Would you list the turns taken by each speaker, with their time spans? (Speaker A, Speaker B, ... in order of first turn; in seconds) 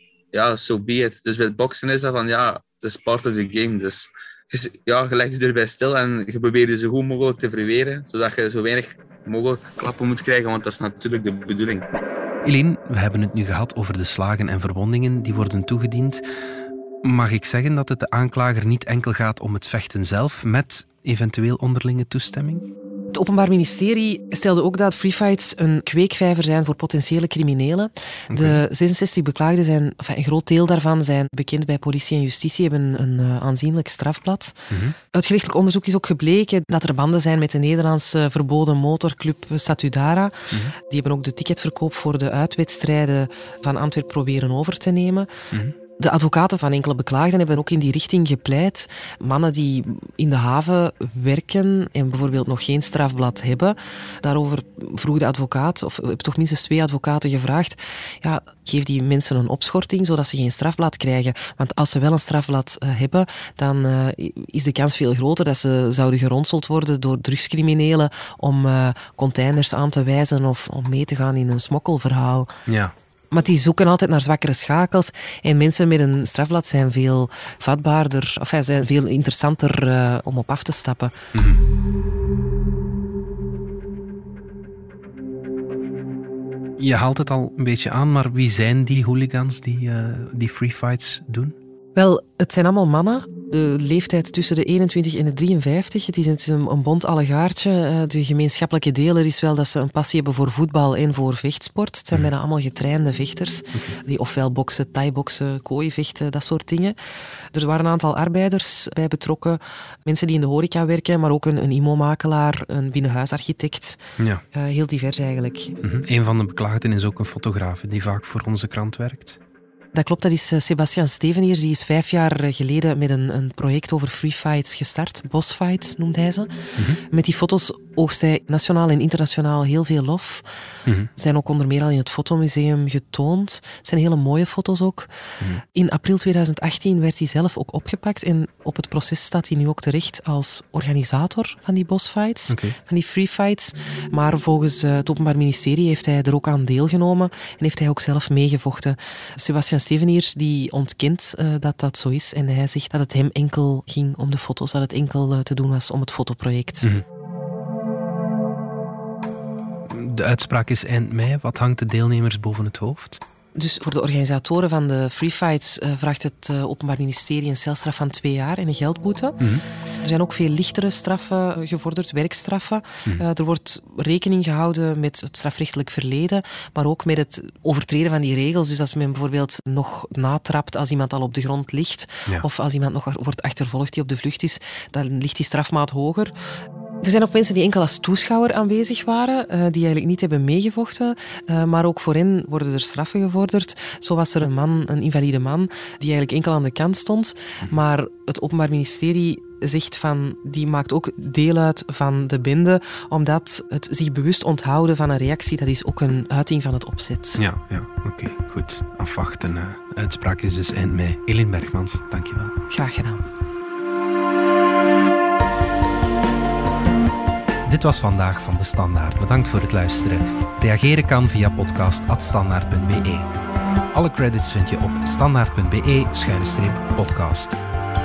Speaker A: 0.3-11.9
Speaker B: 12.4-16.2, 17.0-22.7, 28.3-28.6, 34.7-35.0, 72.7-72.9, 81.3-81.6, 86.8-91.6, 115.8-119.4, 142.5-142.8, 159.9-163.2, 207.4-212.5, 217.7-223.3, 223.9-227.6
Speaker C: 23.1-34.6, 35.1-45.3, 46.0-72.5, 73.3-81.2, 92.0-107.0, 107.5-114.0, 114.5-115.8, 119.9-126.5, 127.1-130.5, 131.2-135.1, 135.8-156.9, 163.6-169.4, 170.0-186.3, 187.0-207.4, 212.7-213.2